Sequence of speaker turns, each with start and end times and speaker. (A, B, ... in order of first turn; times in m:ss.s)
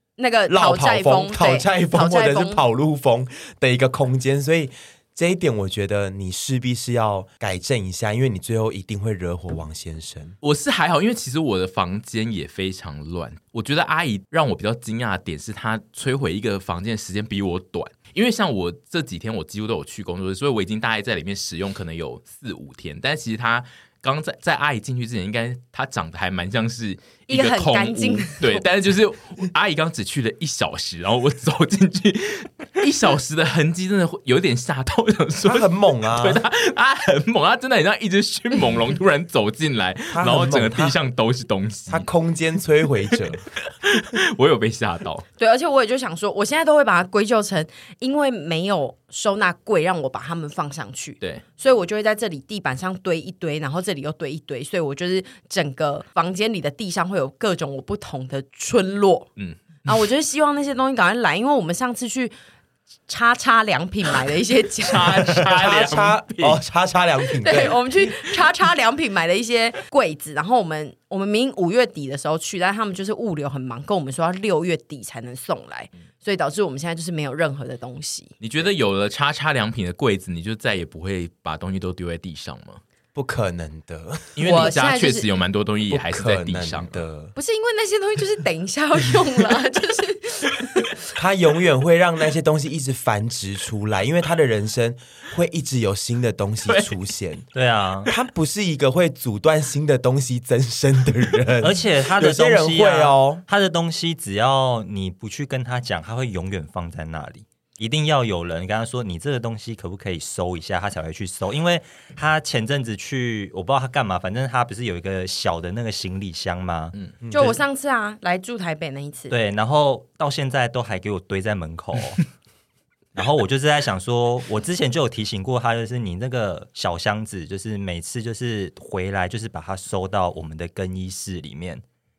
0:00.2-0:02.6 A
0:00.5-0:10.4 B
0:10.4-0:42.1 C
0:27.3-0:28.6 A
0:35.4-0:36.4 B
0:40.1-0:41.0 B
0:41.9-0:43.4 B
0:43.6-0:45.2 C
0:45.4-0:59.3 A
0:59.4-1:00.0 C
0:59.9-1:02.3 A
1:03.1-1:05.4 A
1:04.8-1:06.6 C
1:05.5-1:07.8 B
1:07.4-1:18.3 A
1:18.4-1:22.8 C
1:23.2-1:24.7 B
1:24.4-1:27.0 C
1:24.4-1:25.3 A
1:25.9-1:27.3 B
1:27.4-1:31.1 A
1:31.2-1:37.4 B
1:36.7-1:37.0 C
1:37.5-1:38.1 D
1:38.1-1:43.4 B
1:41.6-1:57.6 D
1:57.2-1:57.6 B
1:57.3-1:59.3 A
1:59.3-2:02.2 D
2:03.2-2:11.8 D